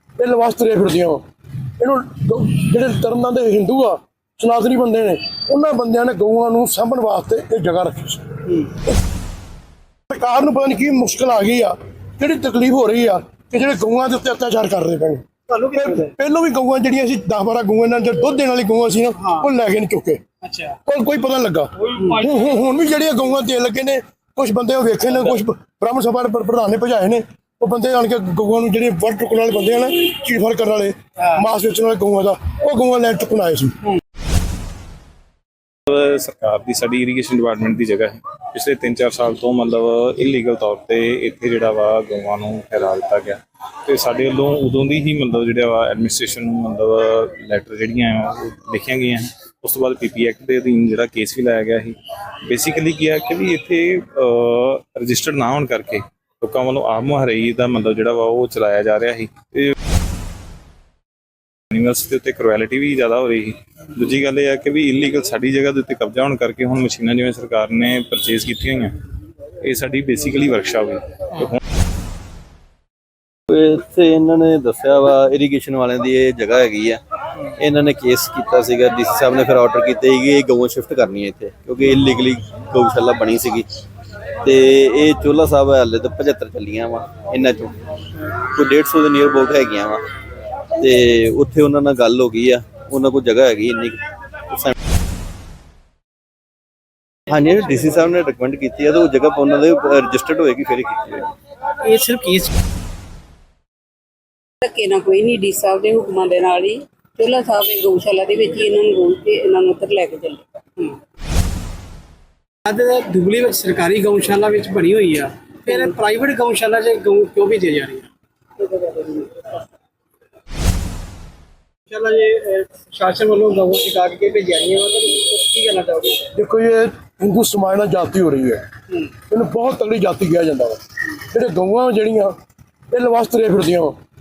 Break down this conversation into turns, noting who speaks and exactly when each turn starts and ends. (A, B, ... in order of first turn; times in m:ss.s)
0:00.2-0:01.2 A
0:01.8-0:08.2 A
0:10.1-0:20.2 A
0:15.5-0:16.1 B
0:19.2-0:19.5 B
0:20.4-0:20.8 B
0:20.8-0:33.8 A
0:21.9-0:22.3 B
0:35.9-0:59.7 C
1:01.7-1:08.9 C
1:09.6-1:11.6 C
1:13.5-1:17.0 D
1:17.6-1:23.7 D
1:24.4-1:27.8 D
1:28.5-1:30.0 D
1:30.8-1:34.7 D
1:37.3-1:41.3 D
1:41.8-1:42.5 B
1:44.6-1:50.4 E
1:52.6-1:58.1 B
1:58.6-1:59.5 B
2:01.9-2:06.3 B
2:06.3-2:08.6 A
2:09.3-2:10.8 A
2:11.3-2:12.4 A
2:12.9-2:14.0 A